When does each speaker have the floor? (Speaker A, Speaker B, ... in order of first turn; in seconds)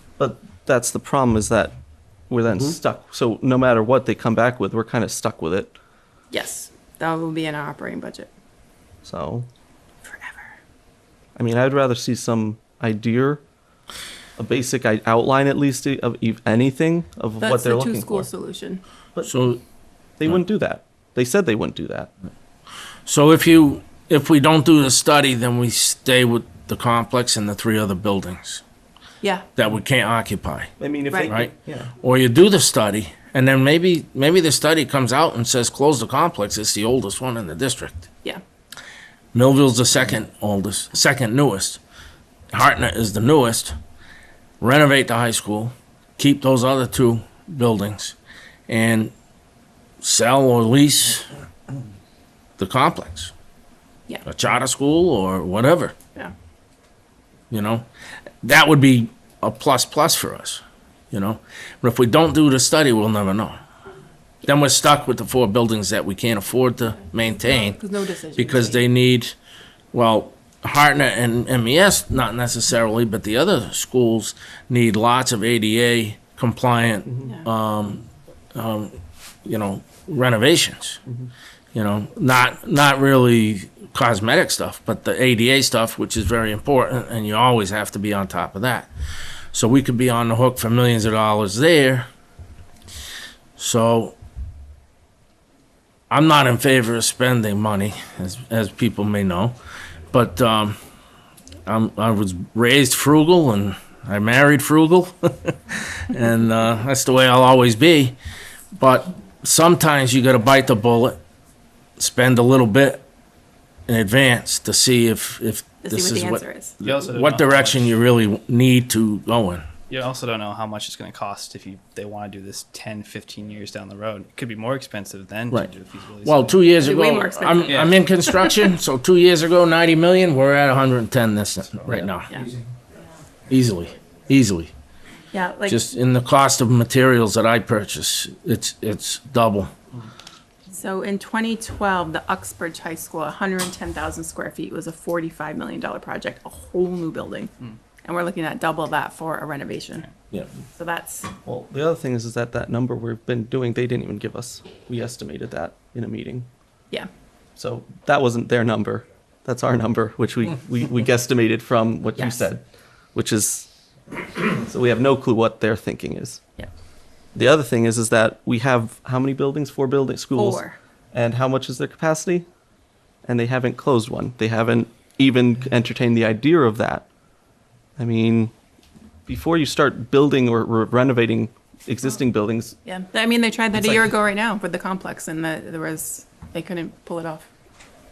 Speaker A: 0.2-1.7, 2.3-5.7, 9.0-9.5, 11.3-13.4, 14.4-18.3, 20.2-22.1, 30.8-31.9, 151.4-156.5, 157.6-163.7, 164.3-166.4, 167.3-172.5, 173.2-177.1, 178.0-178.5, 179.3-182.8, 183.7-184.1
Speaker B: 6.3-8.3, 10.0-10.5, 17.4-18.8, 29.2-29.5, 31.1-31.4, 67.4-68.8, 115.8-116.7, 126.8-128.6, 135.3-135.8, 140.7-147.5, 148.0-150.1, 150.8-151.3, 162.2-162.4, 170.3-170.8, 182.8-187.5
Speaker C: 19.2-19.6, 23.1-28.6, 29.6-30.7, 31.3-38.1, 39.3-41.8, 42.5-43.7, 44.6-48.2, 48.7-49.1, 50.0-51.3, 52.6-53.3, 54.2-55.9, 57.5-57.9, 58.4-63.6, 64.4-67.8, 68.4-69.3, 69.9-81.0, 81.7-88.9, 89.5-92.0, 93.6-94.1, 96.1-99.5, 100.1-100.8, 101.7-108.2, 108.8-111.2, 112.0-113.0, 113.9-119.7, 126.2-132.3, 133.5-134.7, 135.7-139.7
Speaker D: 116.8-117.9, 119.9-126.6, 127.7-127.9